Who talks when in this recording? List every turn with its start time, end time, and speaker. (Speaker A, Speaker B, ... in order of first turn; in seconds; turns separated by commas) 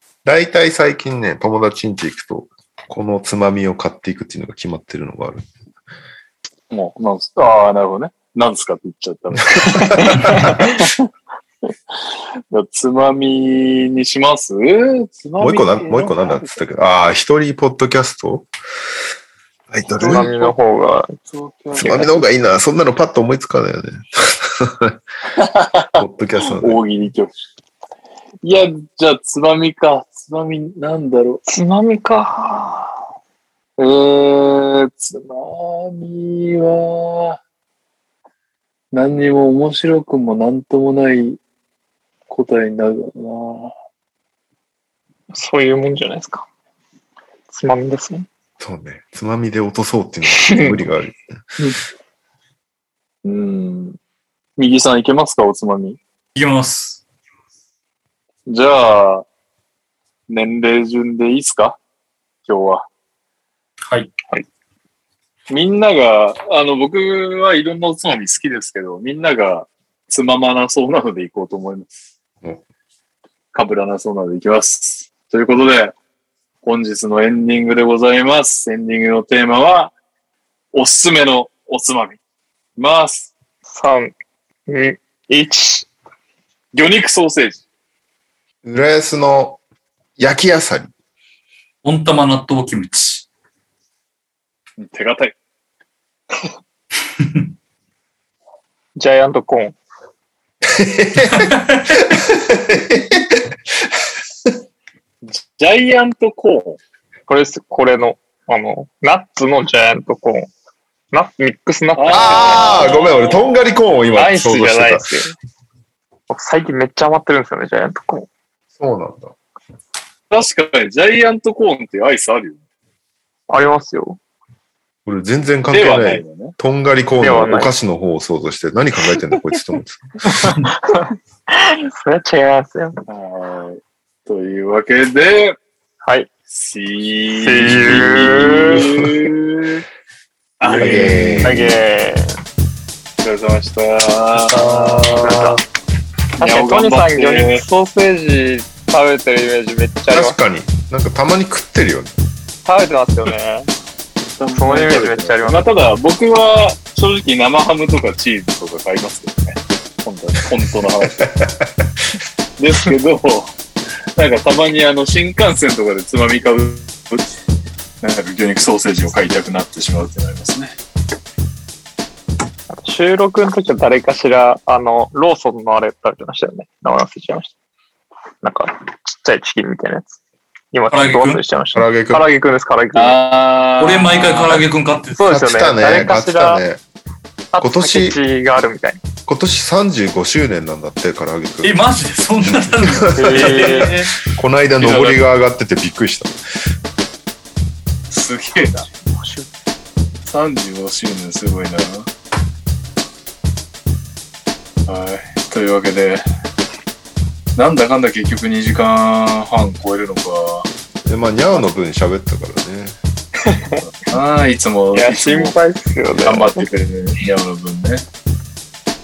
Speaker A: 0.2-5.4, Speaker B: 6.7-11.1, Speaker A: 9.5-10.8, Speaker B: 12.5-16.6, Speaker A: 15.4-18.5, Speaker A: 19.7-20.3, Speaker B: 19.9-20.5, Speaker C: 20.1-21.1, Speaker B: 21.2-22.2, Speaker C: 21.8-22.2, Speaker A: 21.8-25.0, Speaker B: 25.4-26.0, Speaker A: 26.0-26.8, Speaker B: 26.6-27.3, Speaker B: 28.4-31.4, Speaker C: 31.5-32.9, Speaker B: 33.8-37.4, Speaker B: 38.9-41.4, Speaker B: 42.3-43.7, Speaker C: 45.3-46.5, Speaker C: 47.5-48.2, Speaker A: 48.6-51.4, Speaker C: 50.3-50.8, Speaker B: 53.2-54.0, Speaker B: 54.6-56.0, Speaker D: 56.4-57.0, Speaker B: 58.5-59.2, Speaker B: 60.3-61.8, Speaker B: 62.4-62.9, Speaker B: 65.5-72.0, Speaker B: 73.5-75.9, Speaker B: 76.6-79.9, Speaker B: 80.7-82.2, Speaker B: 82.8-83.3, Speaker C: 83.7-84.1, Speaker C: 84.7-85.9, Speaker B: 86.7-87.6, Speaker A: 88.6-89.6, Speaker A: 90.2-90.9, Speaker D: 91.8-93.3, Speaker B: 94.8-95.3, Speaker C: 99.0-99.8, Speaker A: 100.6-104.5, Speaker D: 101.2-102.0, Speaker B: 105.2-106.8, Speaker C: 107.3-110.5, Speaker C: 111.1-112.9, Speaker B: 111.9-113.5, Speaker A: 112.1-115.1, Speaker C: 114.2-115.3, Speaker C: 116.3-118.3, Speaker A: 118.8-119.3, Speaker B: 120.3-122.6, Speaker C: 123.5-124.2, Speaker A: 125.0-130.1, Speaker B: 125.7-126.5, Speaker C: 127.2-127.7, Speaker C: 130.6-133.0, Speaker B: 133.1-135.6, Speaker C: 136.0-136.3, Speaker B: 136.5-139.8, Speaker C: 137.3-138.8, Speaker A: 137.7-139.1, Speaker B: 140.6-141.7, Speaker A: 140.7-141.8, Speaker C: 140.8-142.4, Speaker B: 143.2-145.6, Speaker C: 144.5-145.6, Speaker B: 146.4-147.6, Speaker C: 146.4-150.4, Speaker A: 150.1-152.2, Speaker C: 152.6-153.7, Speaker B: 154.4-161.3, Speaker C: 154.5-155.7, Speaker A: 161.0-161.9, Speaker B: 162.6-163.5, Speaker B: 164.2-167.2, Speaker B: 168.0-170.7, Speaker C: 172.7-177.5, Speaker C: 178.4-180.2, Speaker C: 180.7-183.2, Speaker D: 180.9-181.4, Speaker A: 181.7-182.2, Speaker B: 182.9-184.7, Speaker D: 183.8-185.2, Speaker C: 185.2-186.6, Speaker A: 185.2-186.8, Speaker C: 187.5-189.0, Speaker A: 187.6-188.2, Speaker A: 189.2-191.7, Speaker D: 191.6-193.8, Speaker A: 192.4-193.7, Speaker C: 193.2-193.9, Speaker B: 193.2-194.1, Speaker A: 194.3-196.3, Speaker B: 194.8-195.2, Speaker B: 198.1-198.8, Speaker C: 198.9-199.5, Speaker B: 200.2-202.1, Speaker B: 204.9-206.2, Speaker B: 207.5-210.7, Speaker A: 211.0-212.9, Speaker C: 213.4-213.8, Speaker B: 213.8-215.5, Speaker C: 214.9-216.7, Speaker B: 216.2-218.0